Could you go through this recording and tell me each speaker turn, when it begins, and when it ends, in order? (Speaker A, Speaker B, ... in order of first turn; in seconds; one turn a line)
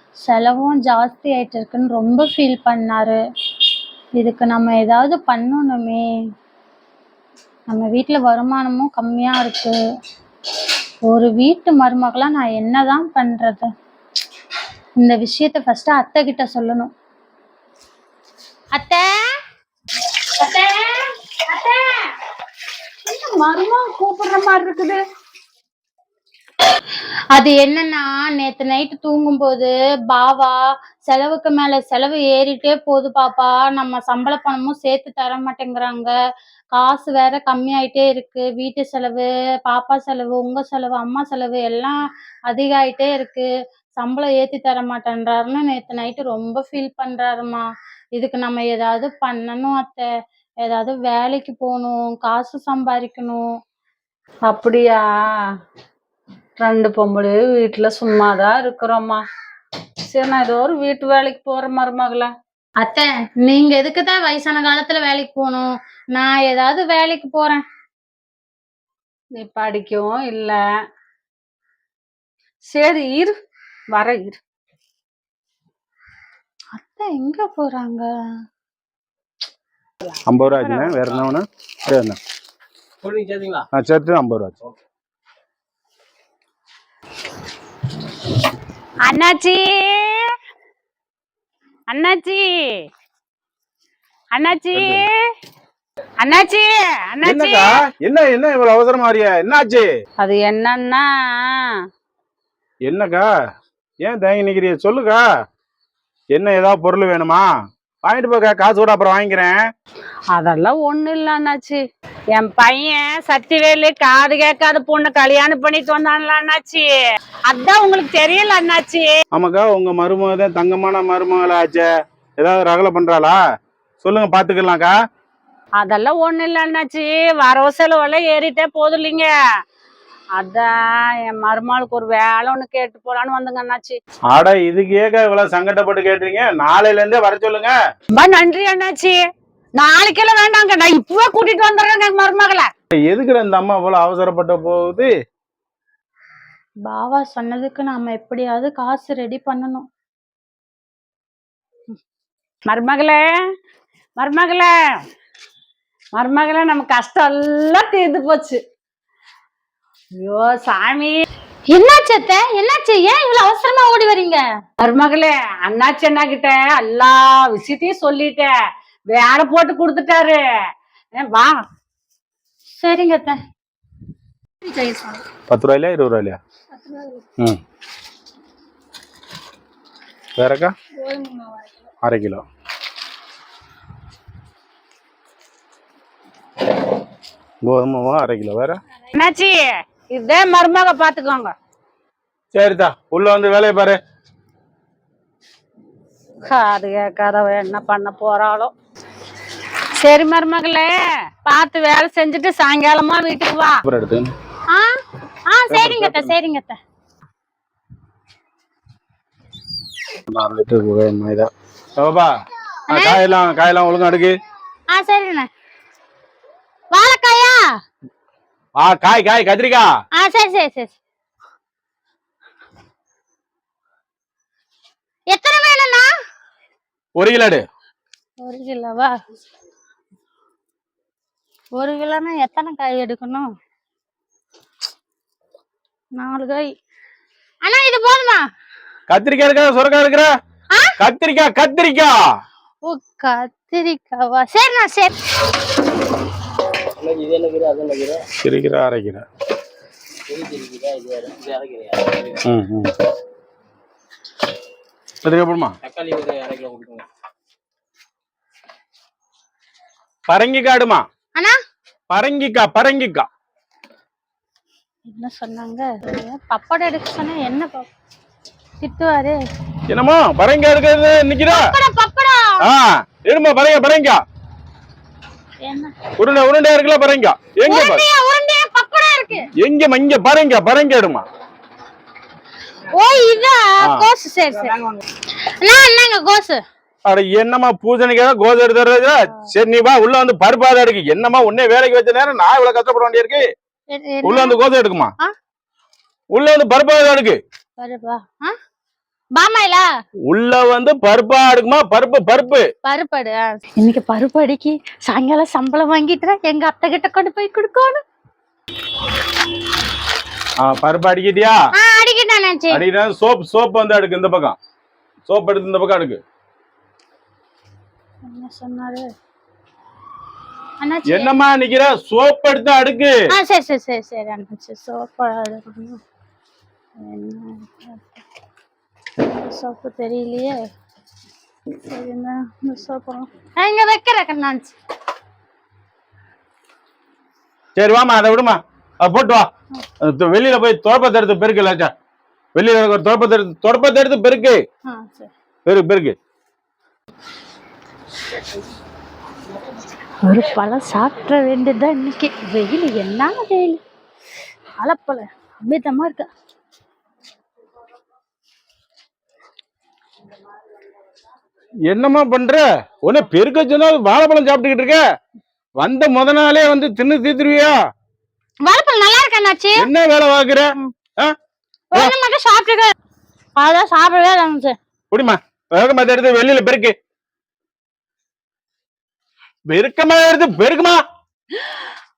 Speaker A: 0.2-3.2
Speaker A: 4.2-6.0
Speaker A: 7.7-9.7
Speaker A: 11.1-13.7
Speaker A: 15.0-16.9
Speaker A: 18.7-19.1
Speaker B: 20.4-22.0
Speaker B: 23.1-25.0
Speaker A: 27.3-36.1
Speaker A: 36.7-42.0
Speaker A: 42.5-47.6
Speaker A: 48.1-50.1
Speaker A: 50.6-53.4
Speaker B: 54.5-55.0
Speaker B: 56.6-59.2
Speaker B: 60.1-62.3
Speaker A: 62.8-67.6
Speaker B: 69.4-70.6
Speaker B: 72.7-73.3
Speaker B: 73.9-74.4
Speaker A: 76.7-78.1
Speaker C: 80.3-82.2
Speaker B: 80.5-81.0
Speaker D: 83.0-83.7
Speaker C: 83.7-84.5
Speaker B: 89.0-90.3
Speaker B: 91.9-92.5
Speaker B: 94.3-95.1
Speaker C: 94.7-95.0
Speaker B: 96.2-97.7
Speaker C: 97.2-99.9
Speaker B: 100.2-101.7
Speaker C: 102.8-103.3
Speaker C: 104.0-105.2
Speaker C: 106.3-107.5
Speaker C: 108.0-109.6
Speaker B: 110.3-111.8
Speaker B: 112.3-116.9
Speaker B: 117.5-119.1
Speaker C: 119.3-121.9
Speaker C: 122.4-123.4
Speaker C: 124.0-124.9
Speaker B: 125.8-129.3
Speaker B: 130.4-134.0
Speaker C: 134.3-137.8
Speaker B: 138.2-139.2
Speaker B: 139.8-142.7
Speaker C: 142.9-145.1
Speaker A: 146.8-149.8
Speaker B: 152.7-153.3
Speaker B: 154.2-154.7
Speaker B: 156.2-158.6
Speaker B: 160.2-161.2
Speaker A: 161.7-164.4
Speaker B: 164.8-168.5
Speaker B: 169.1-170.4
Speaker B: 171.2-171.6
Speaker A: 172.8-173.4
Speaker A: 174.6-175.2
Speaker C: 175.5-176.4
Speaker C: 180.4-180.7
Speaker A: 181.1-181.5
Speaker C: 182.0-182.4
Speaker C: 187.6-188.8
Speaker B: 189.1-189.6
Speaker B: 190.1-191.5
Speaker C: 192.5-194.0
Speaker B: 196.4-198.7
Speaker B: 200.0-203.8
Speaker C: 203.8-204.3
Speaker A: 205.5-206.8
Speaker C: 205.7-206.3
Speaker C: 210.3-212.3
Speaker A: 212.9-213.2
Speaker C: 212.9-214.4
Speaker A: 214.9-215.5
Speaker A: 216.9-217.6
Speaker C: 218.8-219.9
Speaker A: 220.2-220.9
Speaker A: 225.3-226.1
Speaker C: 227.2-227.6
Speaker A: 228.4-229.1
Speaker A: 231.7-233.5
Speaker A: 236.2-236.7
Speaker A: 237.6-238.4
Speaker C: 239.1-240.3
Speaker C: 241.0-242.2
Speaker A: 242.8-245.2
Speaker D: 247.0-248.2
Speaker C: 248.4-249.2
Speaker D: 250.3-252.4
Speaker C: 252.4-252.9
Speaker C: 255.2-255.7
Speaker D: 255.8-257.0
Speaker C: 260.3-261.0
Speaker C: 262.1-263.3
Speaker A: 265.1-267.9
Speaker A: 268.8-269.4
Speaker C: 269.9-271.7
Speaker A: 271.5-272.6
Speaker C: 272.6-274.2
Speaker A: 275.6-275.9
Speaker C: 276.2-278.0
Speaker A: 277.7-279.5
Speaker C: 279.6-281.2
Speaker A: 282.9-284.8
Speaker C: 283.8-284.1
Speaker A: 285.6-286.6
Speaker C: 287.1-293.4
Speaker A: 293.9-294.6
Speaker C: 294.2-295.1
Speaker C: 296.3-297.4
Speaker A: 297.8-298.5
Speaker A: 299.3-299.9
Speaker C: 300.3-302.7
Speaker A: 302.8-308.0
Speaker C: 310.6-311.6
Speaker A: 311.8-312.8
Speaker C: 312.7-314.6
Speaker C: 315.3-316.2
Speaker A: 318.2-319.1
Speaker A: 320.8-321.3
Speaker C: 321.1-323.1
Speaker A: 323.3-326.0
Speaker A: 327.0-328.2
Speaker A: 329.2-330.7
Speaker A: 331.8-334.7
Speaker C: 337.8-339.5
Speaker C: 340.0-341.9
Speaker C: 342.6-344.6
Speaker A: 344.9-345.3
Speaker C: 345.6-346.1
Speaker A: 350.2-353.8
Speaker A: 354.8-356.3
Speaker C: 361.9-365.0
Speaker C: 365.8-367.8
Speaker A: 368.6-369.9
Speaker C: 369.8-371.3
Speaker A: 371.9-372.9
Speaker A: 373.6-374.8
Speaker C: 375.1-376.9
Speaker C: 379.7-381.0